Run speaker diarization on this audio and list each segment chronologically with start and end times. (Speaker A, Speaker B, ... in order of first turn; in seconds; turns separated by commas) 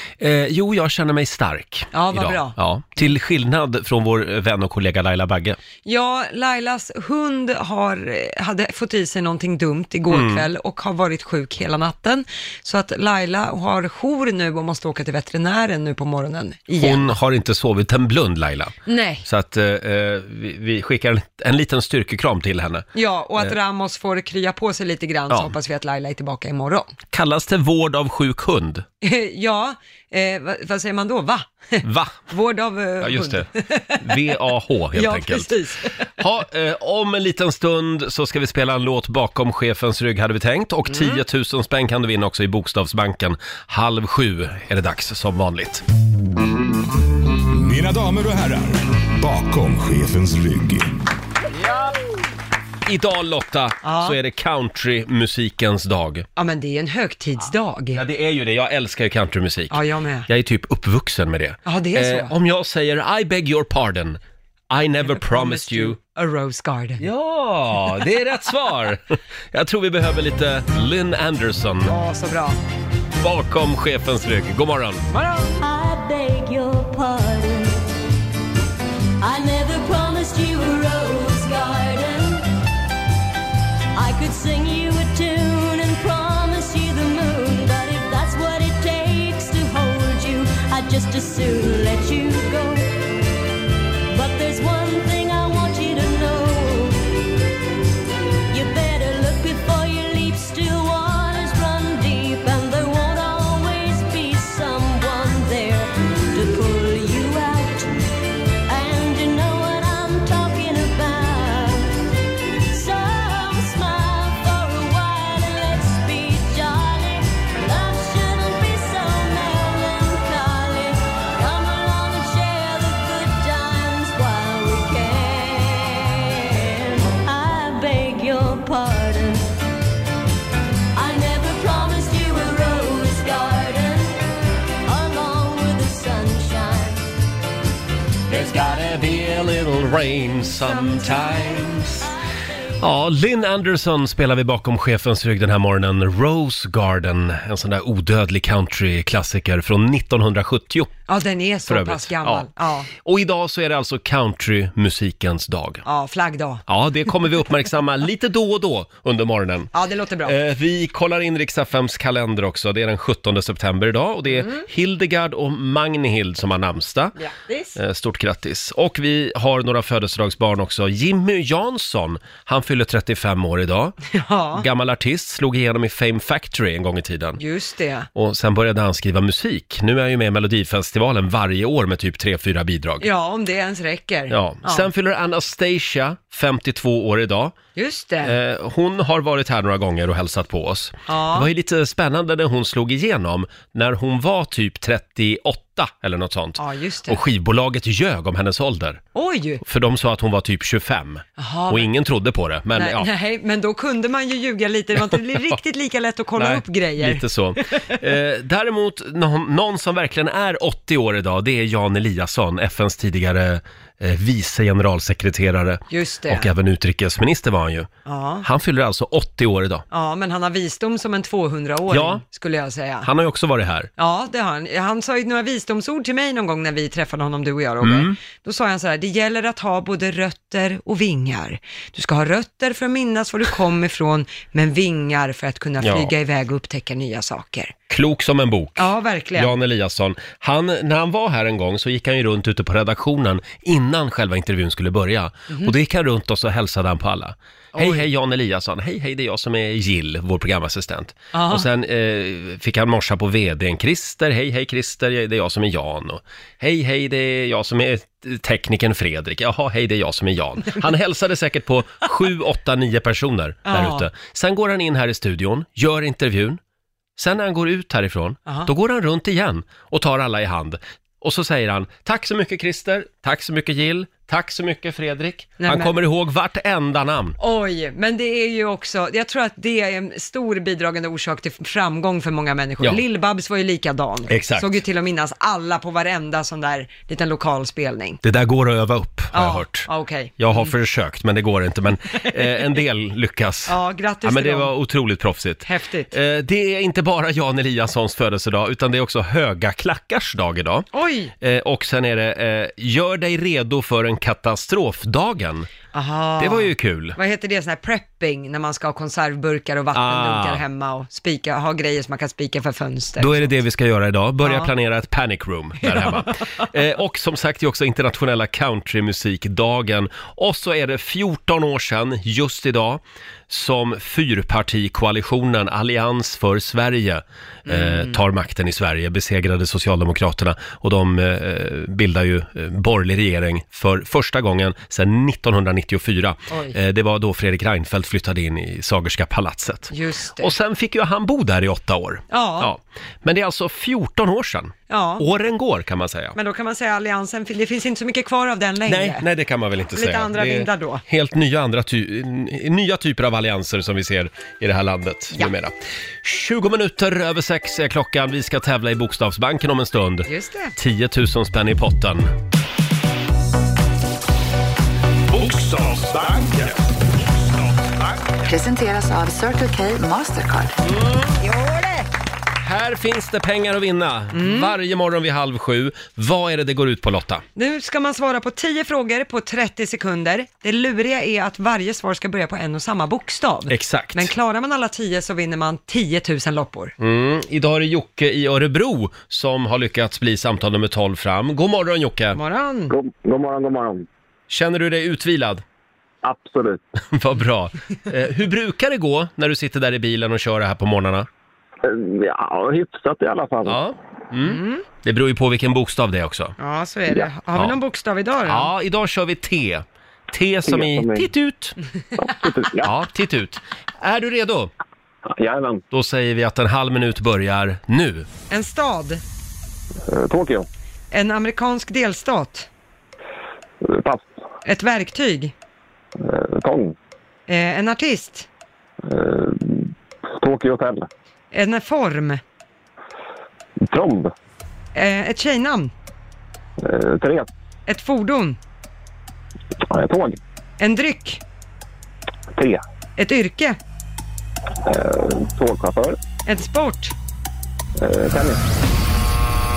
Speaker A: 0.2-5.6, Speaker B: 1.9-2.5, Speaker B: 5.8-17.1, Speaker A: 10.1-10.4, Speaker A: 16.8-22.9, Speaker B: 18.9-19.2, Speaker B: 22.9-26.9, Speaker A: 25.3-25.5, Speaker A: 27.1-28.8, Speaker B: 29.0-34.0, Speaker A: 31.8-32.3, Speaker A: 33.0-35.5, Speaker B: 34.9-35.9, Speaker A: 36.2-45.8, Speaker B: 40.9-41.2, Speaker C: 47.5-50.9, Speaker A: 51.5-51.9, Speaker A: 52.9-56.2, Speaker B: 53.8-54.1, Speaker B: 56.4-58.0, Speaker A: 57.9-66.0, Speaker B: 59.7-60.3, Speaker B: 61.6-62.3, Speaker B: 65.0-67.0, Speaker A: 67.0-71.9, Speaker B: 71.9-72.6, Speaker A: 73.2-75.0, Speaker B: 75.1-75.6, Speaker D: 75.6-77.8, Speaker D: 79.2-82.5, Speaker D: 83.9-92.9, Speaker D: 94.1-97.1, Speaker D: 98.5-107.9, Speaker D: 108.7-112.0, Speaker D: 112.7-129.4, Speaker D: 130.9-134.2, Speaker D: 134.8-137.0, Speaker A: 138.3-142.1, Speaker D: 140.8-142.7, Speaker A: 142.8-150.9, Speaker B: 151.1-152.9, Speaker A: 151.7-155.8, Speaker B: 155.8-156.6, Speaker A: 156.7-159.7, Speaker B: 159.7-160.3, Speaker A: 160.2-167.1, Speaker B: 164.3-164.6, Speaker B: 167.2-167.8, Speaker A: 167.7-173.9, Speaker B: 174.1-174.7, Speaker A: 174.6-177.4, Speaker B: 177.4-178.1, Speaker A: 178.1-183.1, Speaker B: 183.0-184.9, Speaker A: 184.3-187.6, Speaker B: 187.7-188.3, Speaker A: 188.2-199.0, Speaker B: 191.1-191.5, Speaker B: 196.6-197.2, Speaker B: 199.1-199.6, Speaker A: 199.6-203.1, Speaker B: 201.4-201.9, Speaker B: 202.7-207.2, Speaker A: 206.4-217.9, Speaker B: 215.9-216.5, Speaker B: 218.1-218.4, Speaker A: 218.4-219.8, Speaker B: 219.9-223.1, Speaker A: 221.9-222.2, Speaker A: 223.0-223.9, Speaker B: 224.0-237.7, Speaker A: 227.8-228.1, Speaker A: 235.8-236.1, Speaker A: 237.9-266.6, Speaker B: 238.8-239.5, Speaker B: 247.7-248.1, Speaker B: 251.3-251.7, Speaker B: 263.6-264.1, Speaker A: 267.2-277.4, Speaker B: 275.6-275.9, Speaker B: 277.4-288.2, Speaker A: 284.3-284.8, Speaker A: 288.2-300.9, Speaker B: 289.3-290.7, Speaker B: 293.7-294.7, Speaker B: 295.6-296.1, Speaker B: 300.9-301.3, Speaker A: 301.4-305.7, Speaker B: 305.9-313.6, Speaker A: 306.4-307.2, Speaker A: 309.9-310.6, Speaker A: 313.2-346.4, Speaker B: 314.4-314.7, Speaker B: 315.8-316.3, Speaker B: 327.7-328.2, Speaker B: 336.5-336.8, Speaker B: 339.9-340.5, Speaker B: 342.3-342.7, Speaker B: 344.9-345.2, Speaker B: 346.3-349.2, Speaker A: 348.9-362.3, Speaker B: 349.9-351.0, Speaker B: 360.2-360.7, Speaker C: 365.3-368.3, Speaker E: 368.4-370.8, Speaker A: 370.8-371.3, Speaker B: 371.4-372.1, Speaker A: 372.6-377.4, Speaker B: 374.3-374.7, Speaker B: 377.6-386.9, Speaker A: 383.7-384.3, Speaker A: 387.0-392.4, Speaker B: 392.3-392.9, Speaker F: 392.9-394.1, Speaker A: 394.5-395.6, Speaker F: 396.2-396.8, Speaker A: 397.1-401.3, Speaker F: 401.8-403.8, Speaker A: 403.6-406.5, Speaker B: 404.4-404.8, Speaker B: 406.6-408.7, Speaker A: 408.4-411.8, Speaker F: 410.6-411.3, Speaker F: 412.2-412.9, Speaker A: 412.8-414.7, Speaker F: 415.3-415.8, Speaker A: 415.9-418.3, Speaker B: 418.5-419.2, Speaker F: 420.1-420.7, Speaker B: 421.1-422.7, Speaker F: 423.8-424.3, Speaker B: 424.6-425.5, Speaker F: 426.2-426.9, Speaker B: 427.5-428.5, Speaker F: 429.0-431.1, Speaker B: 431.5-432.4, Speaker F: 433.8-434.3, Speaker B: 434.9-435.9, Speaker F: 436.8-437.5, Speaker B: 437.9-438.6, Speaker F: 439.9-440.4, Speaker B: 440.8-441.4, Speaker F: 442.5-442.8, Speaker B: 443.2-443.8, Speaker F: 444.8-446.2, Speaker B: 446.4-447.1, Speaker F: 447.9-448.6